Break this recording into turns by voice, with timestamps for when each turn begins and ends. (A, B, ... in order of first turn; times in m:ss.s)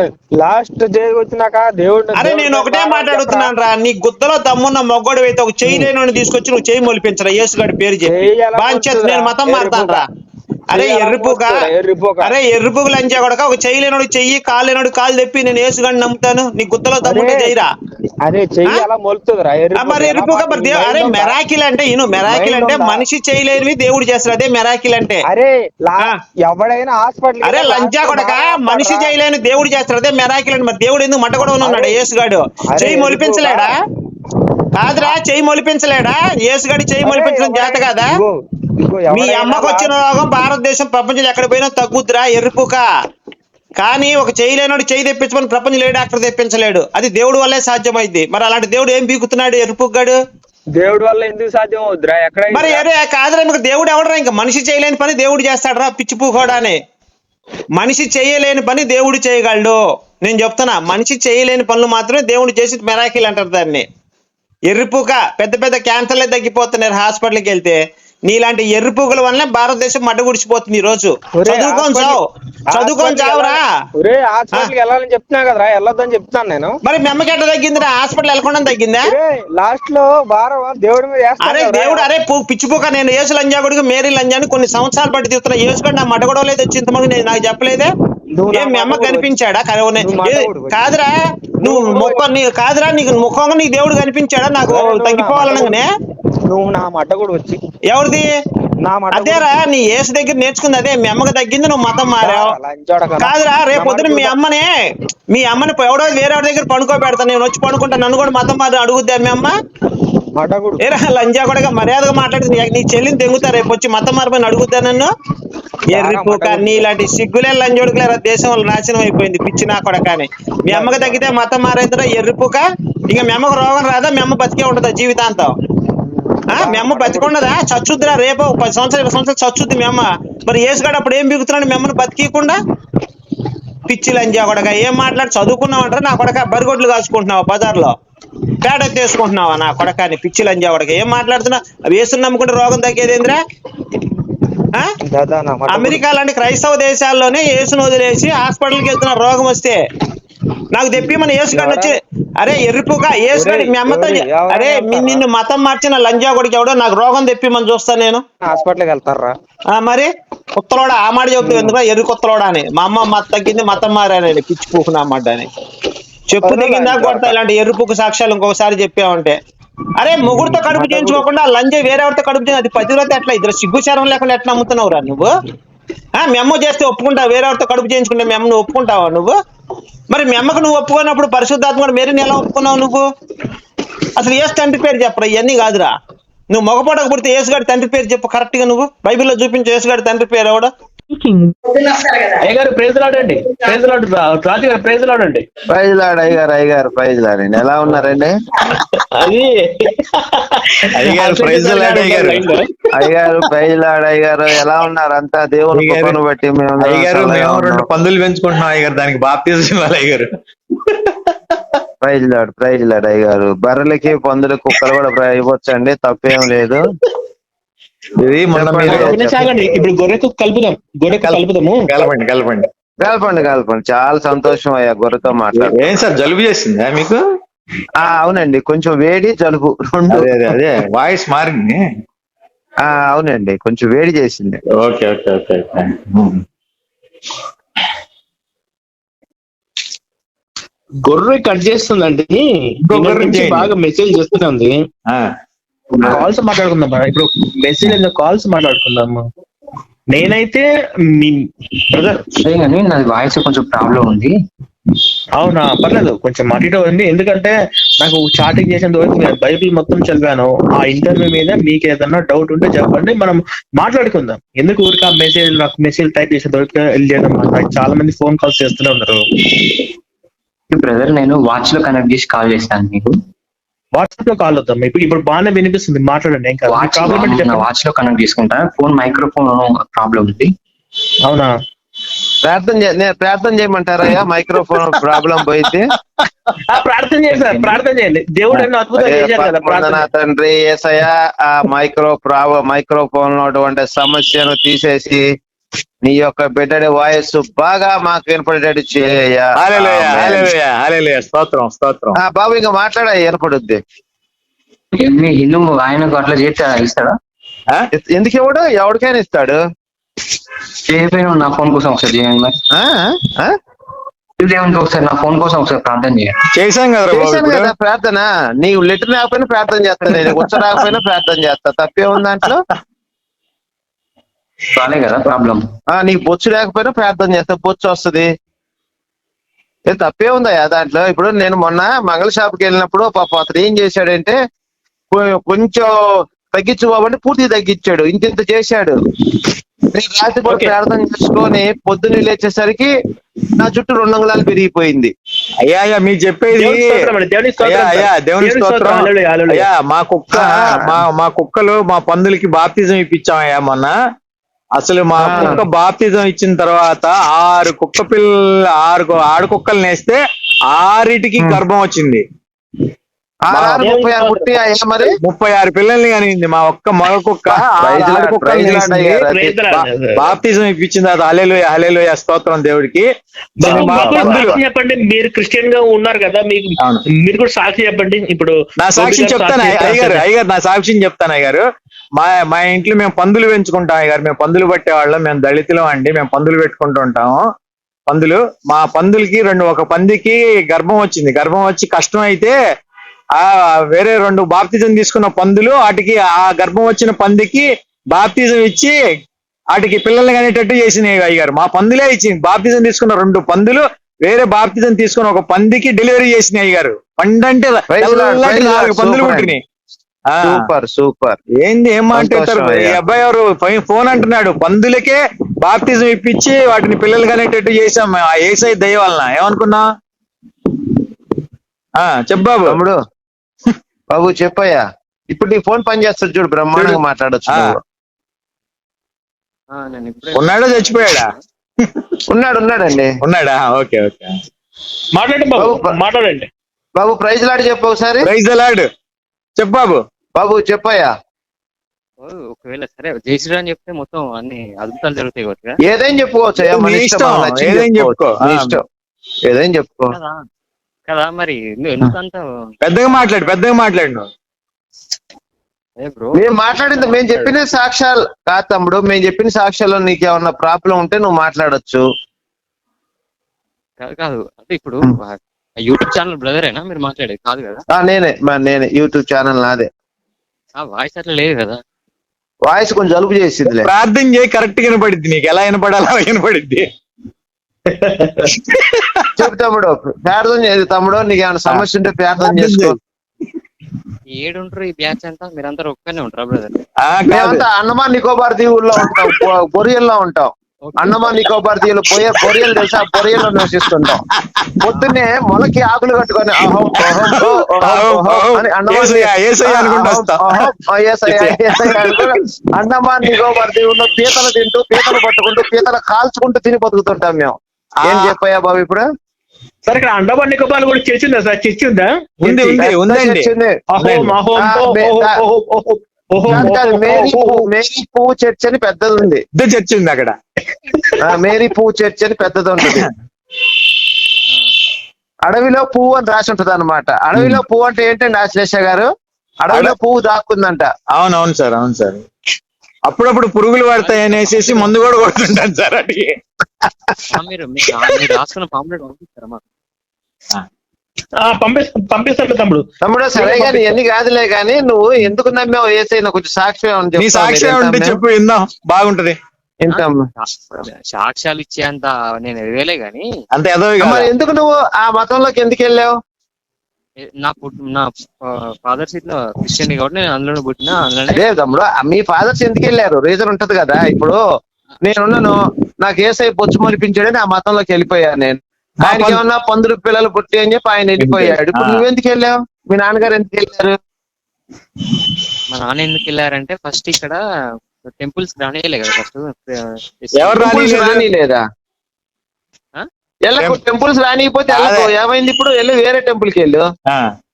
0:00.4-0:03.5 A
0:02.2-0:10.0 B
0:05.6-0:05.9 A
0:08.1-0:10.0 A
0:10.7-0:11.6 B
0:10.7-0:12.3 A
0:12.2-0:17.7 B
0:17.0-0:17.5 A
0:18.2-0:21.3 A
0:19.8-0:25.2 B
0:22.2-0:23.0 A
0:25.2-0:29.1 A
0:27.4-0:33.7 B
0:31.6-0:32.0 A
0:32.7-0:33.7 A
0:34.7-0:38.1 B
0:37.0-0:39.9 A
0:39.1-0:42.8 B
0:43.8-0:50.2 B
0:50.8-0:52.8 A
0:52.5-0:56.8 B
0:57.8-1:03.8 B
1:04.7-1:12.2 B
1:11.4-1:12.2 A
1:12.7-1:16.8 A
1:12.7-1:13.6 B
1:16.8-1:19.0 B
1:19.0-1:22.1 A
1:21.4-1:27.9 B
1:28.4-1:29.3 A
1:28.5-1:35.9 B
1:30.0-1:30.8 A
1:31.6-1:32.2 A
1:34.7-1:35.8 A
1:36.4-1:37.6 A
1:37.9-1:38.3 B
1:38.8-1:39.4 A
1:39.1-1:42.5 B
1:42.2-1:44.3 A
1:43.2-1:44.7 B
1:45.3-1:49.5 B
1:50.3-1:50.8 A
1:50.8-1:55.1 B
1:55.9-1:56.9 A
1:55.9-2:05.5 B
2:00.7-2:01.2 A
2:06.0-2:07.3 A
2:06.6-2:12.6 B
2:13.9-2:17.9 B
2:18.6-2:23.4 B
2:25.0-2:26.0 A
2:25.7-2:29.8 B
2:30.7-2:38.2 B
2:31.5-2:32.0 A
2:33.3-2:35.2 A
2:38.4-2:39.3 A
2:39.7-2:45.5 B
2:41.4-2:41.7 A
2:46.3-2:49.4 B
2:46.4-2:47.3 A
2:50.0-2:55.3 B
2:50.2-2:51.2 A
2:56.2-2:59.3 B
3:00.1-3:03.0 B
3:04.2-3:05.9 B
3:06.5-3:10.7 B
3:11.1-3:15.4 C
3:15.7-3:18.3 D
3:18.7-3:22.8 C
3:20.9-3:22.5 E
3:22.9-3:27.8 D
3:25.7-3:26.2 E
3:26.8-3:30.3 E
3:30.8-3:31.6 E
3:32.0-3:36.8 D
3:38.2-3:39.2 E
3:38.5-3:39.8 D
3:38.8-3:41.9 C
3:41.2-3:42.7 E
3:43.0-3:45.9 D
3:45.5-3:47.2 E
3:48.0-3:50.6 D
3:50.1-3:51.8 E
3:52.8-3:54.6 D
3:54.7-3:56.4 E
4:01.0-4:04.8 C
4:02.9-4:03.7 E
4:05.1-4:05.4 E
4:06.0-4:09.2 C
4:10.1-4:10.6 C
4:11.2-4:12.2 C
4:12.4-4:14.3 F
4:15.4-4:29.2 C
4:30.7-4:33.2 F
4:33.9-4:37.6 C
4:36.7-4:40.5 F
4:41.2-4:41.5 C
4:42.4-4:45.9 D
4:44.6-4:46.3 E
4:46.7-4:50.0 C
4:47.3-4:47.8 F
4:48.9-4:55.2 D
4:56.0-5:00.5 D
4:59.6-5:02.2 E
5:02.2-5:03.8 D
5:04.9-5:07.2 F
5:07.9-5:09.6 D
5:10.9-5:12.6 F
5:12.7-5:13.6 D
5:14.4-5:16.4 F
5:16.5-5:17.7 E
5:17.1-5:22.6 D
5:20.1-5:20.9 E
5:24.8-5:25.6 F
5:25.9-5:28.3 D
5:29.9-5:34.4 D
5:35.1-5:35.9 D
5:36.5-5:39.0 D
5:39.9-5:42.9 D
5:40.4-5:40.8 C
5:43.6-5:45.1 D
5:45.6-5:47.0 E
5:46.5-5:49.6 C
5:47.6-5:53.9 E
5:50.3-5:51.0 D
5:54.8-6:02.2 E
5:55.2-5:55.6 C
5:55.2-5:55.6 D
6:03.5-6:05.1 D
6:03.5-6:03.8 E
6:03.7-6:04.6 C
6:05.2-6:09.2 E
6:07.5-6:09.6 D
6:09.2-6:10.3 C
6:09.7-6:13.1 E
6:13.6-6:20.2 C
6:13.6-6:14.6 E
6:13.6-6:14.6 D
6:18.8-6:21.6 E
6:22.2-6:27.4 E
6:28.1-6:32.5 E
6:33.4-6:39.0 E
6:39.7-6:49.6 E
6:47.9-6:49.5 D
6:50.3-6:50.6 E
6:50.4-6:51.4 D
6:51.6-6:59.8 E
6:52.1-6:53.0 D
7:02.0-7:02.8 E
7:02.6-7:03.0 D
7:04.1-7:07.8 D
7:06.7-7:07.8 E
7:09.7-7:11.4 G
7:10.3-7:12.1 E
7:12.3-7:13.1 D
7:13.2-7:14.3 E
7:15.1-7:16.5 C
7:15.6-7:15.9 D
7:17.0-7:18.3 D
7:18.2-7:18.9 E
7:19.6-7:20.0 E
7:20.4-7:21.1 D
7:22.2-7:25.8 G
7:25.8-7:28.8 D
7:26.6-7:28.8 E
7:29.5-7:30.2 D
7:30.1-7:30.5 G
7:31.1-7:32.7 G
7:32.8-7:34.3 E
7:36.0-7:37.5 G
7:36.3-7:42.0 D
7:44.0-7:47.8 G
7:47.9-7:49.9 D
7:50.8-7:51.8 G
7:52.7-7:53.9 D
7:53.6-7:56.9 E
7:57.8-7:58.5 C
7:58.5-7:59.5 E
7:59.4-8:03.0 D
8:02.4-8:03.0 E
8:04.4-8:06.8 G
8:07.0-8:07.6 E
8:07.3-8:14.2 D
8:08.9-8:09.5 E
8:10.8-8:11.4 G
8:12.1-8:14.9 E
8:14.8-8:29.0 D
8:17.0-8:20.7 E
8:21.3-8:22.4 E
8:25.0-8:25.2 E
8:28.0-8:28.4 E
8:29.9-8:32.8 C
8:32.4-8:33.5 E
8:32.8-8:33.8 D
8:33.9-8:37.7 C
8:34.0-8:34.4 E
8:34.5-8:35.4 D
8:36.4-8:39.4 D
8:39.5-8:40.4 E
8:40.9-8:41.5 C
8:41.2-8:43.1 D
8:42.8-8:43.1 E
8:45.4-8:49.1 D
8:47.3-8:47.6 E
8:49.6-8:50.9 D
8:51.1-8:52.2 E
8:53.1-8:56.4 E
8:54.0-8:55.1 G
8:57.3-8:59.6 G
9:01.4-9:02.8 C
9:03.0-9:08.2 D
9:03.4-9:04.0 C
9:07.2-9:09.4 E
9:09.8-9:10.2 D
9:09.9-9:13.2 G
9:13.5-9:14.3 E
9:14.0-9:16.1 D
9:17.2-9:21.4 G
9:21.3-9:24.4 D
9:25.0-9:34.0 D
9:29.0-9:29.4 E
9:31.2-9:32.0 E
9:35.7-9:37.4 G
9:38.0-9:40.8 G
9:40.4-9:41.2 E
9:40.6-9:41.6 D
9:43.5-9:46.8 D
9:44.7-9:45.1 E